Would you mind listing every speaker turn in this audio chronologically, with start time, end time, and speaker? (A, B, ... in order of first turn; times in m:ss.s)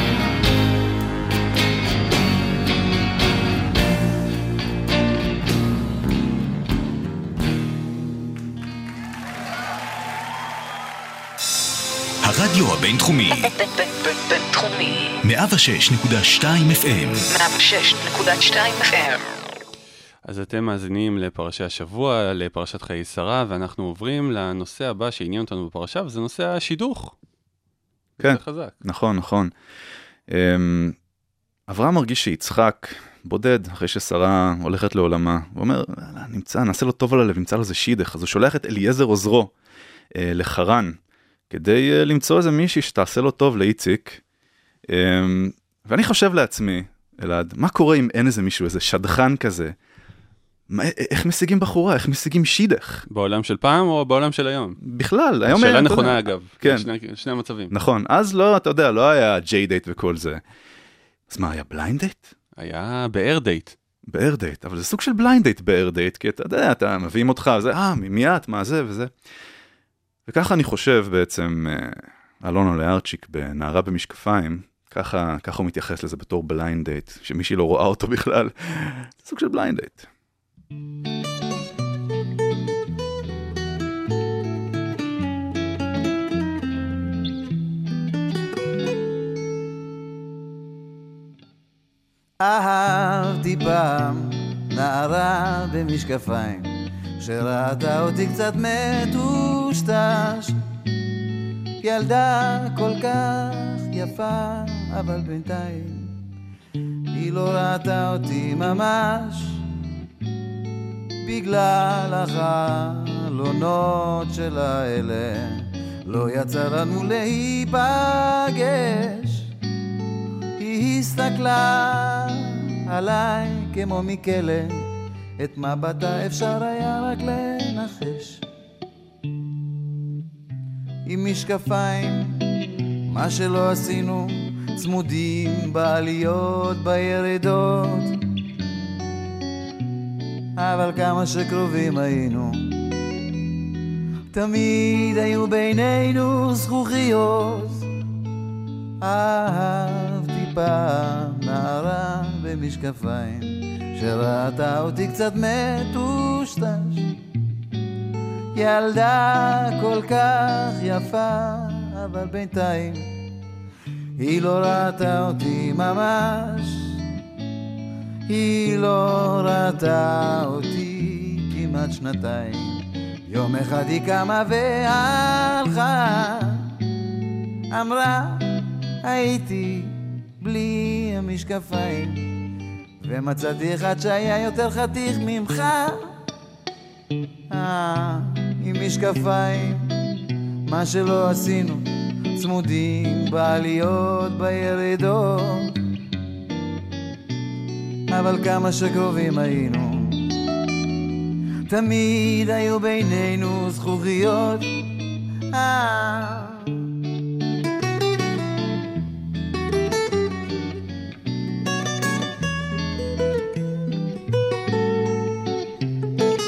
0:12.2-0:13.6 A
0:13.3-0:15.1 B
0:15.2-0:17.3 A
0:17.3-0:19.2 B
0:20.2-0:27.2 C
0:28.2-0:28.8 C
0:28.2-0:29.5 D
0:30.3-0:31.0 D
0:31.7-0:39.5 D
0:40.2-0:41.0 D
0:41.5-0:44.2 D
0:44.9-0:49.7 D
0:50.7-0:53.0 D
0:53.1-0:54.8 C
0:54.8-0:56.9 D
0:55.5-0:57.7 C
0:57.7-1:00.4 D
1:01.3-1:02.3 D
1:02.6-1:03.8 C
1:04.1-1:09.1 D
1:10.3-1:20.1 D
1:32.4-1:40.6 E
1:41.8-1:46.2 E
1:47.1-1:49.6 E
1:51.2-1:59.5 E
2:00.6-2:04.9 E
2:05.4-2:08.4 E
2:11.1-2:12.4 E
2:13.1-2:18.2 E
2:20.6-2:22.8 E
2:24.3-2:27.9 E
2:29.0-2:37.1 E
2:38.5-2:43.1 E
2:44.2-2:47.0 E
2:48.3-2:56.8 E
2:57.7-2:58.5 E
2:59.0-3:02.4 E
3:03.0-3:06.1 E
3:07.5-3:09.9 E
3:10.7-3:15.8 E
3:18.1-3:20.4 E
3:21.7-3:24.8 E
3:25.5-3:26.8 E